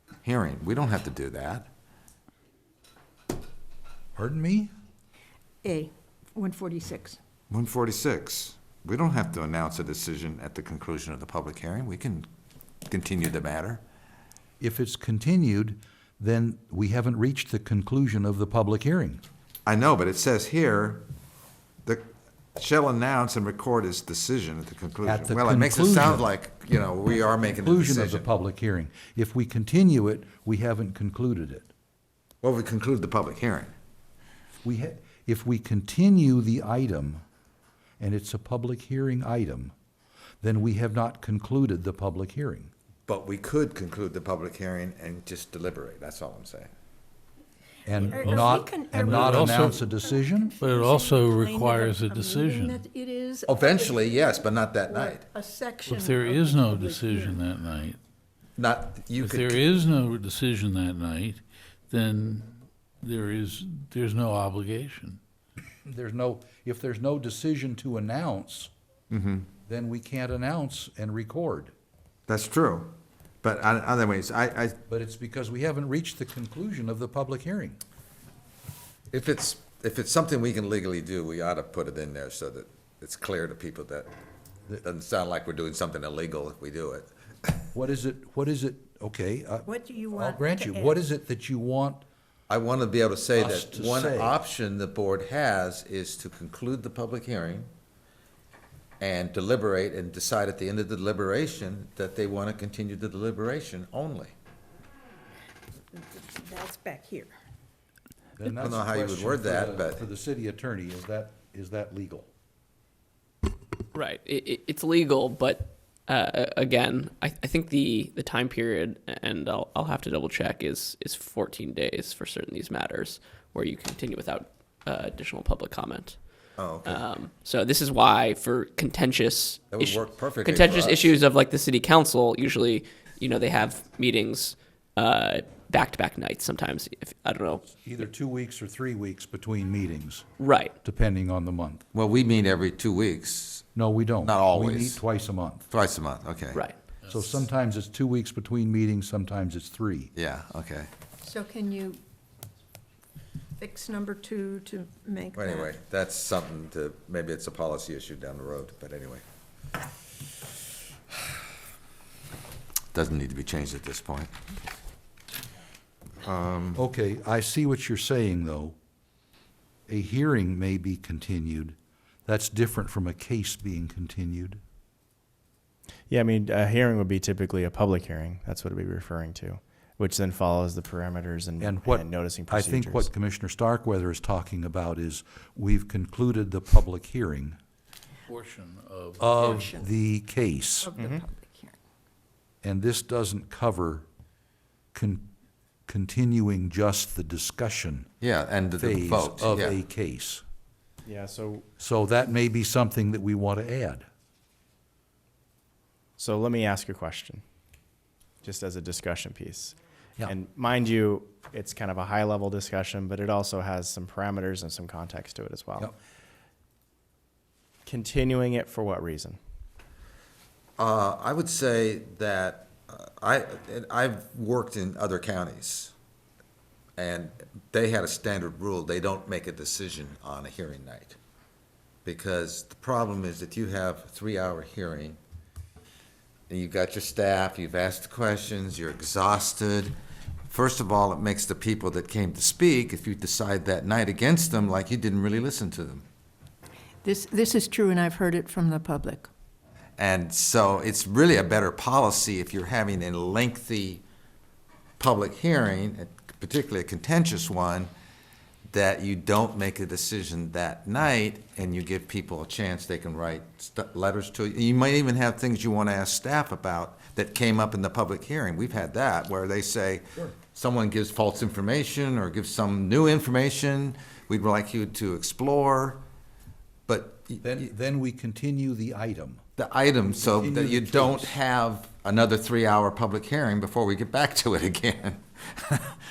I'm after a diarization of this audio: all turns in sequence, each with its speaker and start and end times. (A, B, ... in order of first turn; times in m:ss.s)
0:00.2-0:01.7 A
0:04.2-0:04.7 B
0:05.6-0:07.2 C
0:07.5-0:12.3 A
0:12.9-0:13.8 A
0:14.6-0:19.2 B
0:19.7-0:21.1 A
0:21.8-0:28.3 A
0:25.0-0:26.2 B
0:27.6-0:31.7 B
0:32.4-0:33.7 A
0:34.6-0:37.2 B
0:38.0-0:39.7 B
0:40.4-0:42.7 B
0:43.1-0:46.7 A
0:47.9-0:50.6 B
0:48.0-0:54.0 C
0:48.2-0:49.8 D
0:50.6-0:52.8 D
0:53.5-0:55.2 A
0:54.9-0:57.4 C
0:55.9-0:58.0 D
0:58.6-0:59.6 A
0:59.2-1:02.5 D
1:03.0-1:05.2 D
1:05.8-1:08.7 B
1:09.1-1:09.5 A
1:09.7-1:11.7 B
1:12.3-1:14.8 A
1:14.9-1:17.8 B
1:19.1-1:24.1 A
1:24.7-1:27.1 A
1:27.7-1:32.0 B
1:29.7-1:30.9 C
1:32.5-1:37.7 A
1:33.4-1:34.4 B
1:39.0-1:44.3 A
1:45.9-1:47.3 C
1:48.4-1:52.3 B
1:48.5-1:50.1 A
1:53.9-2:06.2 E
2:06.6-2:07.0 A
2:06.8-2:17.8 E
2:09.7-2:11.2 A
2:17.8-2:20.3 B
2:20.4-2:20.7 E
2:20.8-2:21.8 B
2:21.9-2:23.6 A
2:23.8-2:25.6 B
2:24.2-2:25.0 A
2:25.7-2:26.6 A
2:27.1-2:30.1 B
2:30.2-2:30.9 A
2:31.2-2:32.0 C
2:33.6-2:35.7 C
2:35.4-2:39.2 A
2:42.9-2:44.3 A
2:46.2-2:46.8 A
2:46.8-2:48.8 B
2:49.9-2:54.6 B
2:56.1-3:03.1 F
3:01.6-3:07.6 B
3:08.3-3:09.4 D
3:09.2-3:10.9 B
3:09.3-3:09.9 C
3:10.8-3:11.8 C
3:11.0-3:11.2 F
3:12.6-3:14.1 B
3:14.9-3:15.3 B
3:15.9-3:18.1 B
3:18.2-3:19.8 A
3:18.8-3:20.4 B
3:21.0-3:21.7 F
3:21.8-3:24.0 B
3:26.2-3:27.4 F
3:28.4-3:35.9 F
3:37.9-3:39.4 F
3:40.8-3:45.9 A
3:47.0-3:51.2 A
3:52.0-3:55.2 A
3:56.5-3:59.9 A
4:00.5-4:06.0 A
4:07.0-4:09.3 C
4:10.0-4:14.0 A
4:15.0-4:17.9 A
4:18.7-4:36.0 A
4:36.9-4:37.7 A
4:37.4-4:39.4 B
4:39.6-4:46.0 A
4:40.2-4:41.4 B